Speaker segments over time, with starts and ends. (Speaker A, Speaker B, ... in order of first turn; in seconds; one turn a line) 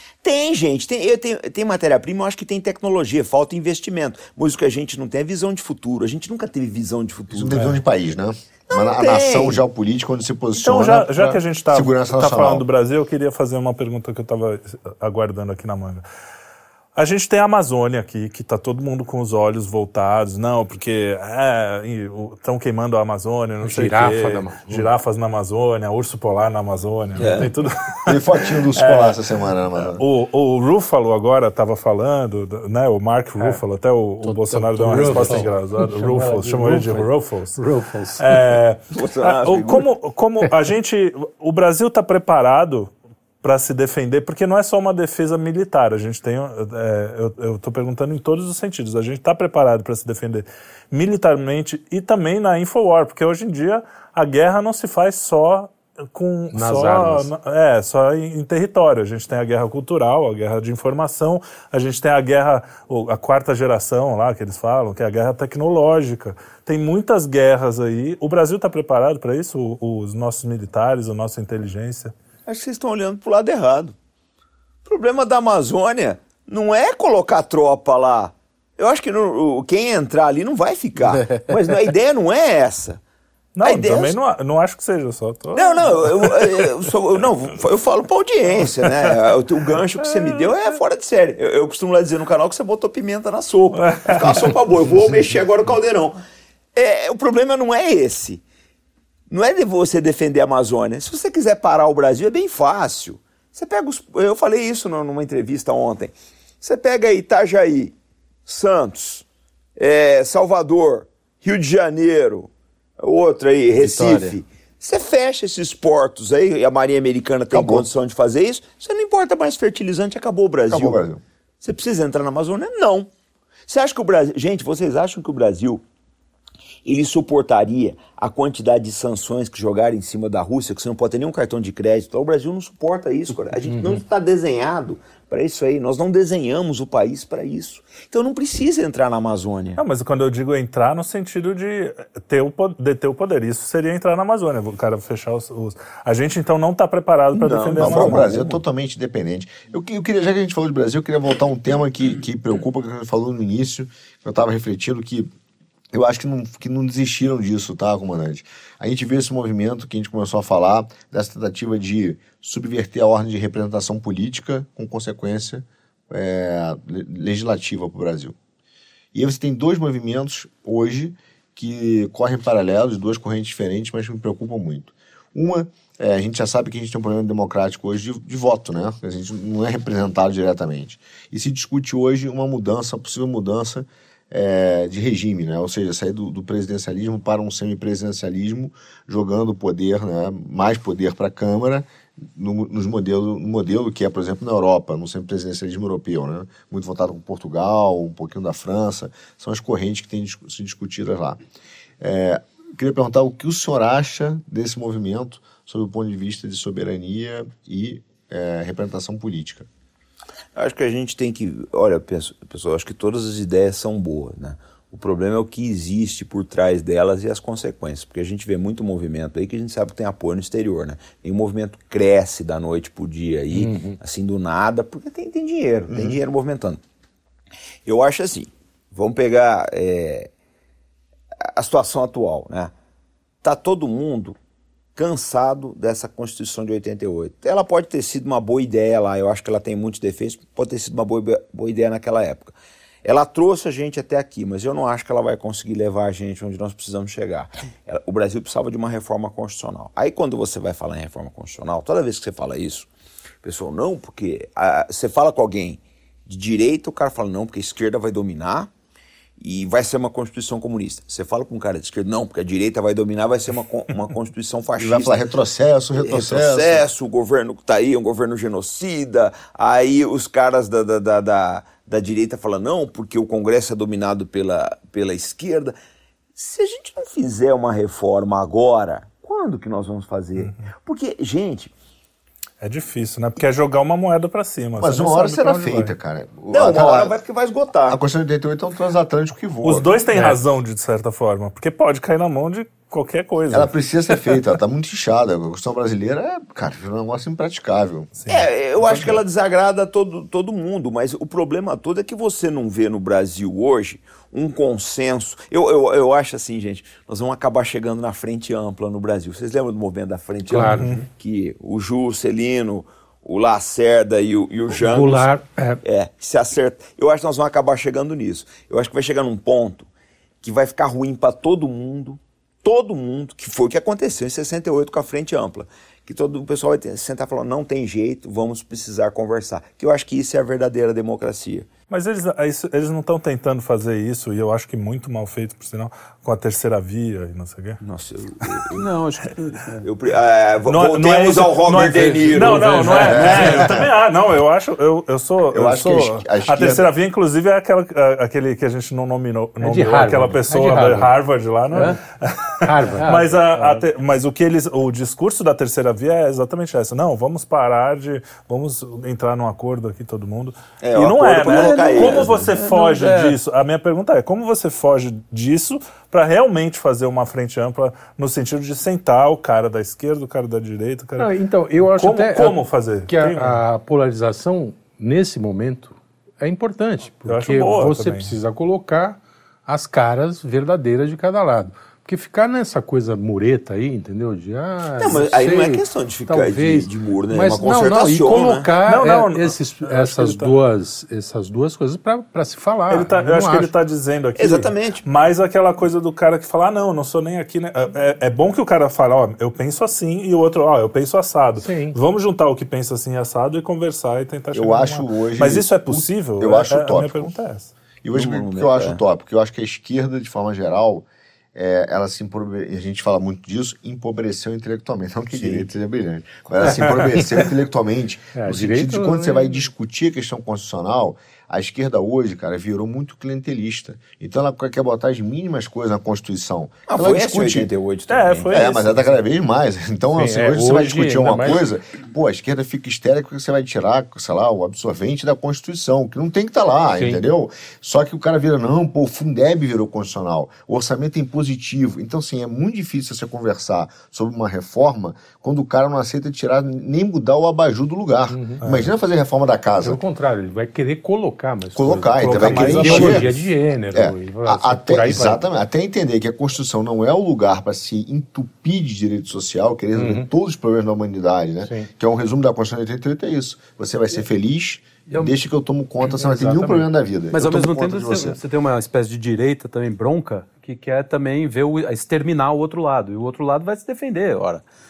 Speaker A: 0.2-7.7
Speaker B: 7.3-12.7
Speaker C: 7.5-7.8
Speaker A: 8.7-9.6
Speaker C: 10.6-16.0
Speaker C: 17.0-28.2
Speaker D: 23.6-24.9
Speaker A: 27.2-27.5
Speaker B: 28.1-30.0
Speaker C: 28.7-29.2
Speaker C: 29.8-37.6
Speaker D: 34.2-38.4
Speaker E: 34.9-35.5
Speaker C: 38.2-72.1
Speaker A: 38.9-39.9
Speaker D: 56.5-57.3
Speaker A: 72.5-74.0
Speaker A: 74.9-83.0
Speaker C: 83.6-86.8
Speaker A: 83.6-84.2
Speaker A: 85.5-96.2
Speaker C: 88.8-89.1
Speaker C: 90.0-90.5
Speaker C: 93.8-94.5
Speaker A: 96.8-98.4
Speaker A: 99.3-108.0
Speaker A: 108.5-109.2
Speaker A: 109.8-121.0
Speaker E: 113.8-114.4
Speaker B: 117.5-117.9
Speaker B: 120.7-121.2
Speaker A: 121.6-123.1
Speaker A: 123.7-125.8
Speaker A: 126.8-139.8
Speaker C: 139.8-148.2
Speaker A: 147.3-148.6
Speaker B: 147.8-155.3
Speaker B: 155.9-168.4
Speaker B: 169.1-201.4
Speaker B: 202.0-209.7
Speaker A: 210.6-226.8
Speaker D: 223.5-224.0
Speaker B: 225.9-226.2
Speaker A: 227.9-230.3
Speaker A: 231.4-232.7
Speaker A: 233.4-234.4
Speaker A: 235.0-242.5
Speaker A: 243.0-252.9
Speaker A: 253.4-258.7
Speaker A: 259.4-265.2
Speaker B: 264.8-266.9
Speaker A: 265.9-275.8
Speaker A: 276.4-281.7
Speaker C: 280.4-280.7
Speaker C: 282.6-285.9
Speaker B: 284.8-287.1
Speaker A: 286.5-288.0
Speaker B: 287.9-290.0
Speaker C: 289.6-293.7
Speaker B: 293.5-298.1
Speaker C: 298.2-299.1
Speaker A: 298.3-315.3
Speaker D: 310.5-310.9
Speaker C: 310.8-311.0
Speaker D: 314.7-315.8
Speaker A: 315.8-319.9
Speaker A: 320.4-331.7
Speaker C: 331.9-337.8
Speaker A: 337.8-338.9
Speaker E: 338.7-339.9
Speaker A: 339.8-343.8
Speaker C: 340.7-373.6
Speaker E: 341.9-343.1
Speaker B: 343.0-343.9
Speaker B: 345.5-346.9
Speaker D: 349.6-351.1
Speaker D: 351.7-352.0
Speaker D: 352.6-353.8
Speaker A: 360.8-362.6
Speaker E: 361.5-363.4
Speaker D: 371.2-393.7
Speaker C: 377.3-378.3
Speaker A: 385.0-388.7
Speaker C: 388.9-390.5
Speaker C: 392.9-407.7
Speaker A: 394.4-395.1
Speaker D: 401.6-402.0
Speaker B: 404.5-407.3
Speaker B: 408.0-427.7
Speaker A: 408.1-409.0
Speaker A: 415.3-415.7
Speaker D: 416.6-417.4
Speaker D: 418.4-419.7
Speaker A: 426.9-428.7
Speaker C: 428.1-429.2
Speaker B: 428.5-450.0
Speaker D: 430.1-431.6
Speaker D: 436.9-437.2
Speaker D: 448.3-448.6
Speaker D: 449.8-455.4
Speaker B: 451.8-453.3
Speaker C: 452.2-453.4
Speaker B: 453.9-468.4
Speaker D: 459.9-460.3
Speaker D: 466.2-466.8
Speaker E: 467.3-474.6